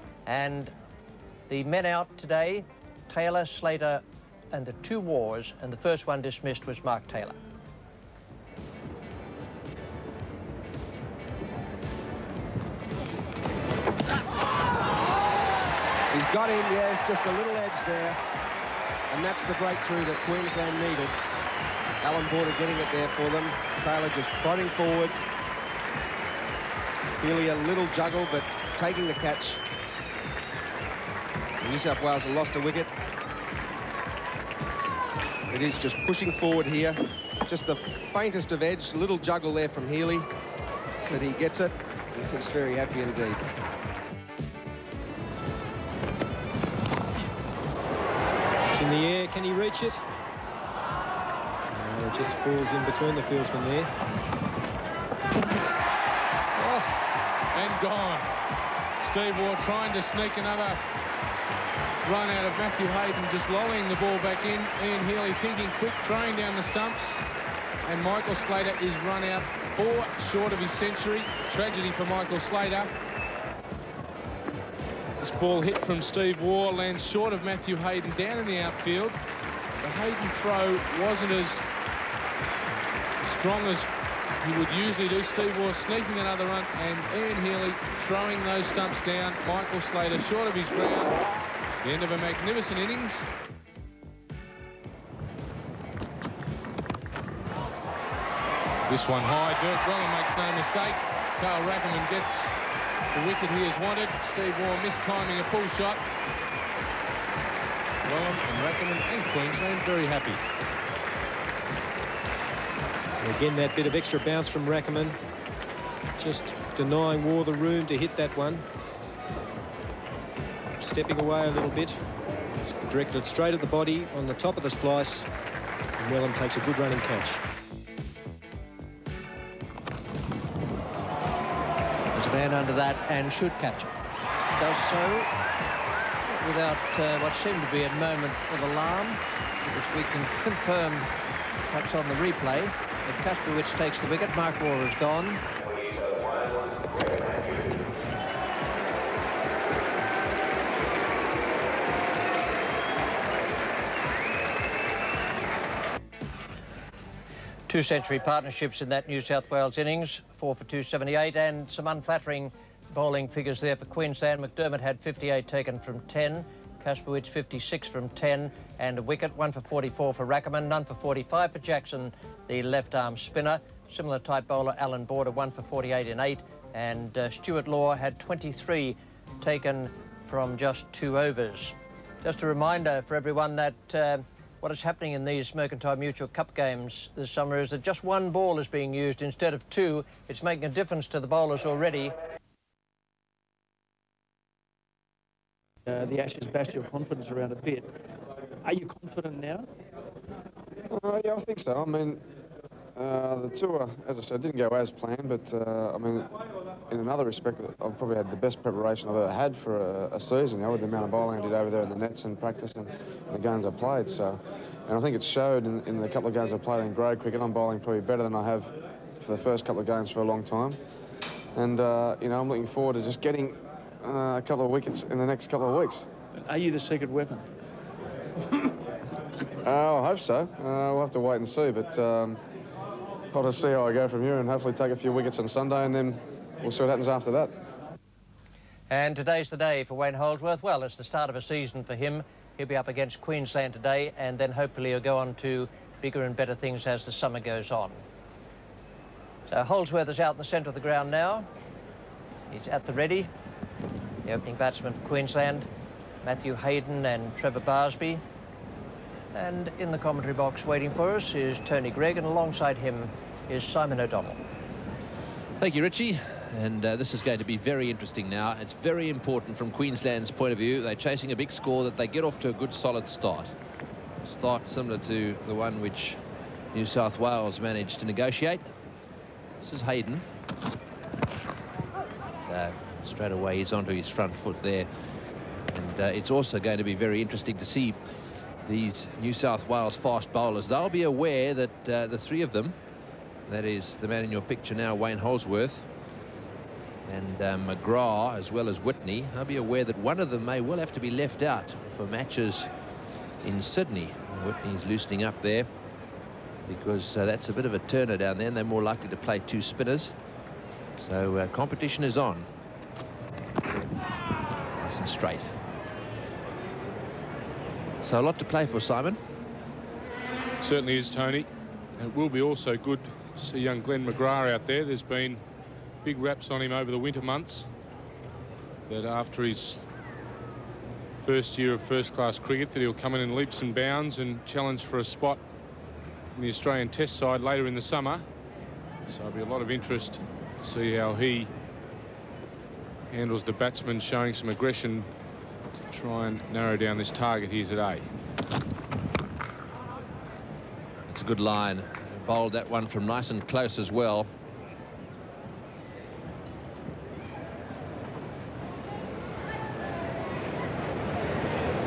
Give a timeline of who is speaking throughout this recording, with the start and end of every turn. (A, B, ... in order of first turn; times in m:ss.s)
0:00.3-0:00.7 A
0:01.5-0:07.4 A
0:16.1-0:18.2 B
0:19.1-0:21.1 B
0:22.0-0:25.2 B
0:27.2-0:29.6 B
0:31.6-0:32.9 B
0:35.5-0:40.3 B
0:41.1-0:43.4 B
0:48.7-0:50.0 C
0:51.7-0:53.9 C
0:56.6-0:56.9 C
0:57.5-0:58.3 D
0:59.0-1:00.8 D
1:02.0-1:07.2 D
1:07.8-1:12.9 D
1:15.2-1:19.2 D
1:19.8-1:21.6 D
1:23.2-1:23.9 D
1:24.4-1:31.2 D
1:31.8-1:33.3 D
1:38.9-1:42.6 D
1:43.1-1:46.0 D
1:48.0-1:50.4 D
1:53.2-1:55.2 C
1:56.2-1:58.6 C
2:00.8-2:02.0 C
2:02.6-2:05.3 C
2:06.0-2:07.4 C
2:12.1-2:13.9 A
2:14.6-2:15.3 A
2:16.3-2:21.1 A
2:21.7-2:25.4 A
2:37.7-3:12.2 A
3:15.9-3:17.9 E
3:18.6-3:19.7 E
3:20.9-3:22.3 F
3:23.0-3:26.3 F
3:26.9-3:40.8 F
3:41.6-3:46.1 F
3:46.3-3:47.5 E
3:49.6-3:52.4 F
3:53.3-3:57.6 F
3:58.9-4:08.0 A
4:09.5-4:11.5 A
4:12.5-4:13.3 A
4:14.2-4:15.7 A
4:16.2-4:18.2 A
4:19.3-4:24.4 A
4:25.6-4:33.5 G
4:34.2-4:36.2 G
4:36.7-4:38.7 G
4:39.6-4:40.2 G
4:42.4-4:44.9 G
4:45.7-4:48.0 G
4:48.6-4:52.8 G
4:53.5-4:55.9 G
4:57.0-5:02.7 G
5:03.4-5:05.7 G
5:06.6-5:10.2 G
5:11.0-5:12.5 G
5:14.8-5:15.5 G
5:18.0-5:19.2 G
5:20.6-5:25.4 D
5:26.0-5:27.7 D
5:28.9-5:29.9 D
5:31.2-5:35.4 D
5:36.4-5:38.2 D
5:39.1-5:41.5 D
5:43.1-5:45.1 D
5:45.9-5:48.1 D
5:51.1-5:54.3 G